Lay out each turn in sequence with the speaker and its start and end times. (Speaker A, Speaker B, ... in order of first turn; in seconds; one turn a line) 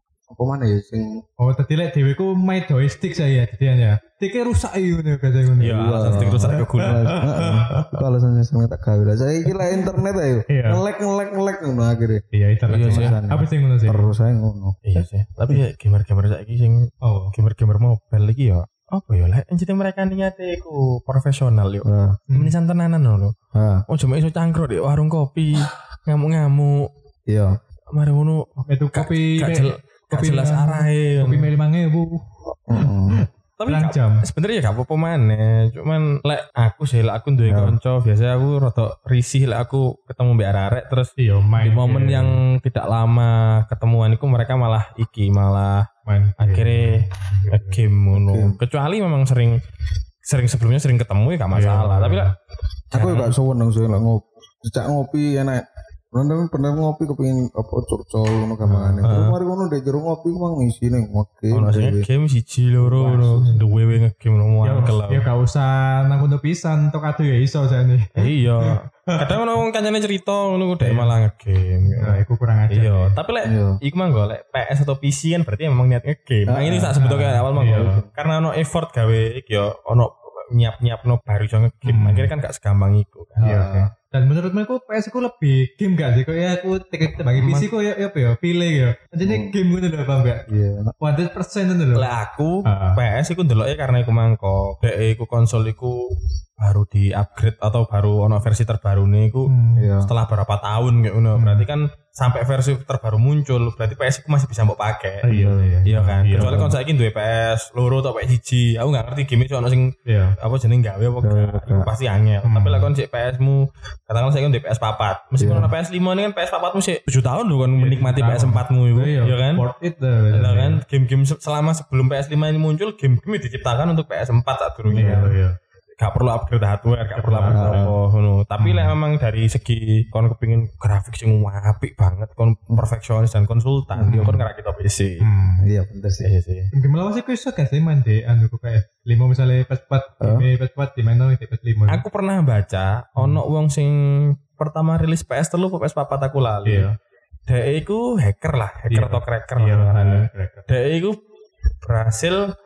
Speaker A: 0.3-1.2
Speaker B: 1.4-7.9
Speaker C: 5.6-7.5
Speaker A: 5.6-14.8
Speaker B: 9.5-9.9
Speaker B: 10.5-10.8
Speaker B: 12.3-14.1
Speaker C: 12.7-13.2
Speaker C: 14.8-23.3
Speaker B: 17.0-17.3
Speaker A: 21.9-22.2
Speaker B: 22.3-22.5
Speaker A: 23.5-23.9
Speaker C: 23.9-26.9
Speaker A: 27.3-27.6
Speaker C: 27.9-31.5
Speaker B: 28.6-32.2
Speaker A: 32.7-33.2
Speaker B: 32.7-34.2
Speaker C: 33.6-49.6
Speaker A: 37.4-37.8
Speaker B: 41.2-42.4
Speaker B: 46.0-47.8
Speaker A: 48.1-48.6
Speaker C: 50.2-52.3
Speaker B: 51.5-52.3
Speaker C: 52.9-53.3
Speaker A: 52.9-62.0
Speaker B: 58.6-59.1
Speaker C: 59.0-59.4
Speaker C: 61.5-65.3
Speaker B: 62.9-63.8
Speaker A: 63.0-63.4
Speaker B: 64.6-69.3
Speaker C: 68.2-83.6
Speaker B: 70.8-71.1
Speaker B: 71.9-73.2
Speaker A: 73.4-73.8
Speaker A: 76.5-77.0
Speaker B: 77.0-78.0
Speaker A: 77.7-78.1
Speaker B: 81.8-82.3
Speaker A: 83.4-83.9
Speaker B: 83.4-90.5
Speaker C: 87.4-87.7
Speaker A: 89.2-89.5
Speaker A: 90.5-90.9
Speaker B: 91.0-92.1
Speaker C: 91.9-99.5
Speaker B: 92.6-93.0
Speaker B: 99.5-99.9
Speaker A: 99.8-100.1
Speaker C: 100.0-105.3
Speaker B: 101.4-101.6
Speaker B: 105.2-106.7
Speaker A: 105.3-106.8
Speaker C: 105.8-119.6
Speaker B: 110.0-110.4
Speaker A: 111.2-111.9
Speaker B: 112.4-112.9
Speaker A: 115.4-115.7
Speaker B: 117.8-120.8
Speaker C: 120.3-125.4
Speaker A: 124.9-125.3
Speaker B: 124.9-125.5
Speaker C: 126.0-135.3
Speaker B: 127.1-127.9
Speaker A: 127.4-128.0
Speaker B: 128.6-128.9
Speaker A: 133.9-134.4
Speaker B: 134.0-134.4
Speaker B: 135.2-135.7
Speaker A: 135.6-136.3
Speaker C: 136.2-136.7
Speaker B: 136.7-142.0
Speaker A: 140.2-140.5
Speaker C: 141.9-146.9
Speaker B: 143.2-143.4
Speaker B: 146.6-146.9
Speaker C: 147.5-151.2
Speaker B: 148.9-150.7
Speaker C: 151.8-152.5